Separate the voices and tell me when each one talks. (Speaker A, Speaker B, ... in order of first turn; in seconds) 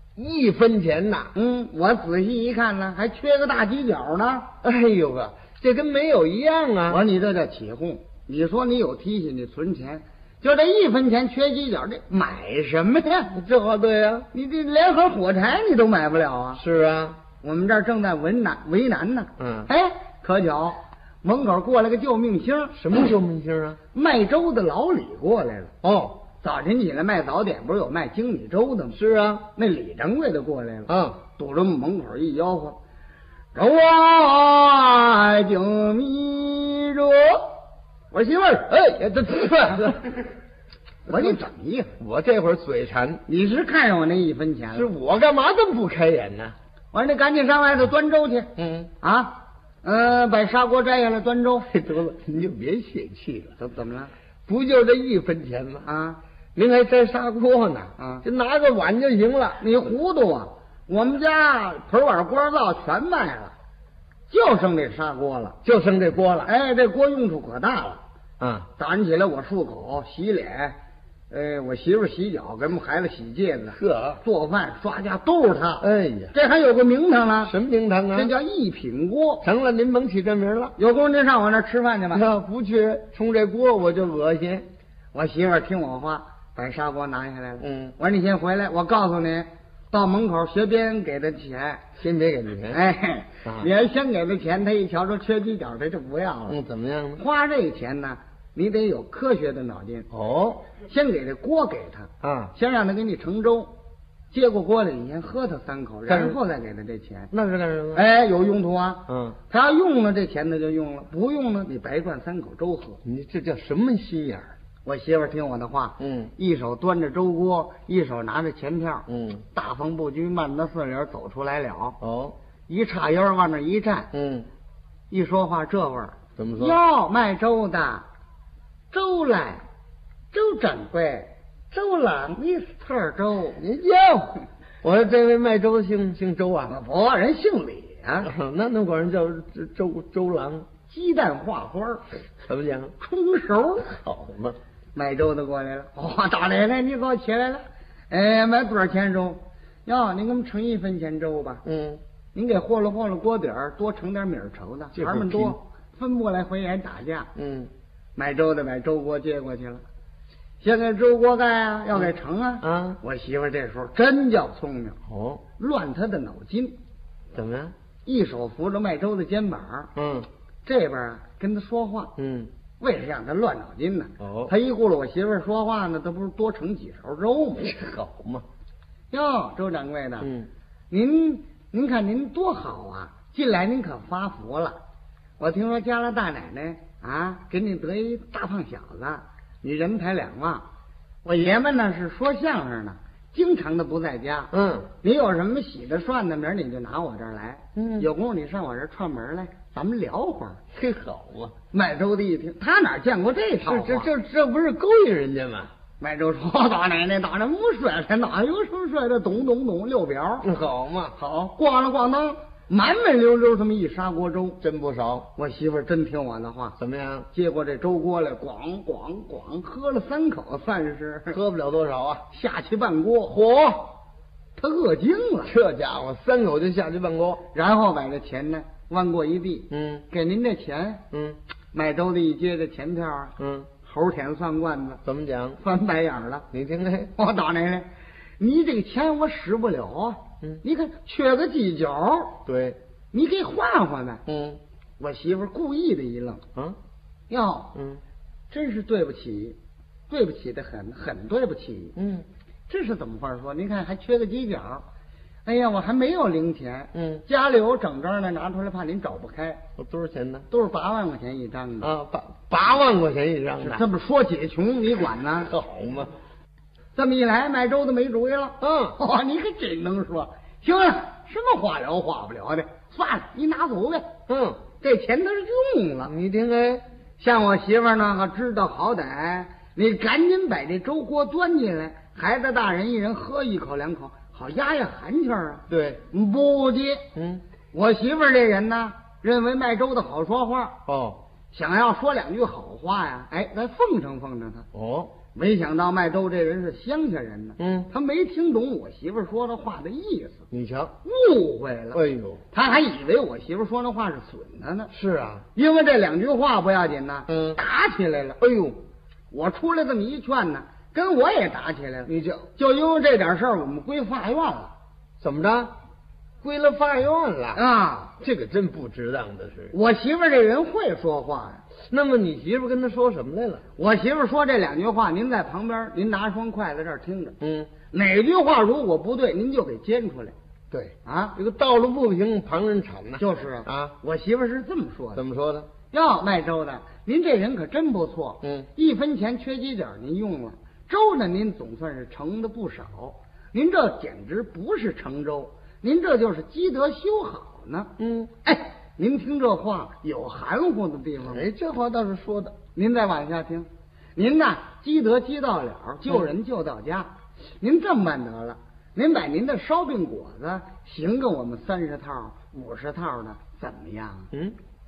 Speaker A: 0.2-1.3, 4.6-7.0, 13.3-14.3, 16.6-17.2, 19.4-19.7, 22.7-23.8, 25.8-26.2, 28.9-29.4, 30.9-31.2, 38.7-40.2, 41.1-41.4, 42.0-43.2, 44.7-46.5, 48.6-48.9, 51.7-53.5, 54.5-55.9, 56.5-59.6, 65.6-66.5, 68.4-68.7, 73.7-74.2, 75.8-76.3, 77.4-78.3, 79.4-80.8, 82.1-84.7, 87.6-88.0, 92.0-92.8, 96.5-97.2, 100.1-100.7, 102.2-102.5, 106.1-106.4, 107.3-108.0, 109.1-109.4, 113.0-114.5, 116.0-116.3, 119.1-119.4, 122.0-122.4, 124.1-124.5, 126.4-126.8, 133.6-136.8, 138.2-140.7, 142.4-142.9, 143.9-144.6, 151.7-152.0, 154.9-155.6, 157.4-157.7, 162.6-163.0, 165.1-165.4, 167.3-167.7, 170.0-170.3, 172.2-172.5, 174.2-174.5, 177.6-178.4, 180.2-180.5, 194.5-194.9, 197.8-198.1, 200.7-201.5, 203.7-205.7, 210.4-211.2, 214.6-215.3, 216.8-217.3, 221.3-222.2, 223.3-223.9, 225.5-227.4, 229.7-230.1, 231.1-231.4, 233.4-233.7, 235.0-235.6, 236.5-237.1, 242.4-242.8, 244.3-244.6, 247.8-248.0, 252.0-252.3, 256.9-257.2, 259.8-260.5, 261.8-263.8, 265.5-266.1, 268.6-269.0, 274.3-274.6, 276.1-276.8, 285.7-286.0, 287.1-287.4, 290.9-291.2, 294.7-295.1, 297.6-297.9, 300.5-300.9, 301.9-302.4, 304.9-305.4, 307.3-307.6, 308.4-308.8, 312.1-312.5, 315.2-315.7, 316.4-317.6, 318.2-319.7, 321.9-323.6, 327.4-327.7, 330.7-333.9, 335.1-335.7, 338.4-338.7, 348.0-348.3, 351.3-352.6, 364.3-364.6
Speaker B: 1.3-4.5, 6.9-13.3, 14.3-16.6, 17.4-22.8, 23.9-25.7, 26.4-29.0, 29.6-32.8, 33.5-37.5, 38.1-38.7, 41.1-41.9, 43.3-44.9, 46.9-48.5, 49.0-51.7, 53.6-54.1, 55.8-56.2, 58.0-58.3, 59.6-63.5, 64.3-65.6, 66.5-68.0, 68.8-70.8, 71.3-77.5, 78.1-79.5, 80.8-82.3, 85.1-91.8, 92.7-96.6, 97.2-100.1, 100.8-103.7, 104.3-107.3, 107.9-113.0, 114.8-122.0, 122.7-124.1, 125.1-128.1, 128.9-129.6, 130.3-133.6, 136.7-138.3, 140.9-142.0, 143.0-143.9, 144.9-151.6, 152.3-157.3, 158.2-159.8, 160.6-165.0, 165.6-166.8, 168.1-169.9, 170.7-172.1, 172.8-177.8, 179.1-180.3, 180.9-184.8, 185.4-190.7, 191.2-200.6, 201.7-204.1, 206.0-210.5, 211.2-214.6, 215.4-216.8, 217.3-221.4, 222.3-223.3, 224.6-225.6, 227.5-231.0, 231.7-235.0, 235.6-236.5, 237.2-237.9, 238.4-242.4, 243.1-244.2, 245.0-246.4, 247.3-247.8, 248.5-249.6, 250.1-252.0, 252.7-254.8, 255.4-259.6, 260.5-261.9, 263.6-265.5, 266.9-274.1, 274.8-276.1, 277.2-287.1, 287.7-290.8, 291.5-294.7, 295.4-300.5, 301.0-302.0, 302.5-304.9, 305.6-308.4, 309.3-314.7, 317.6-318.1, 319.7-321.6, 323.8-327.4, 327.9-330.3, 331.1-331.4, 333.2-335.2, 335.9-347.9, 348.4-351.5, 352.8-364.3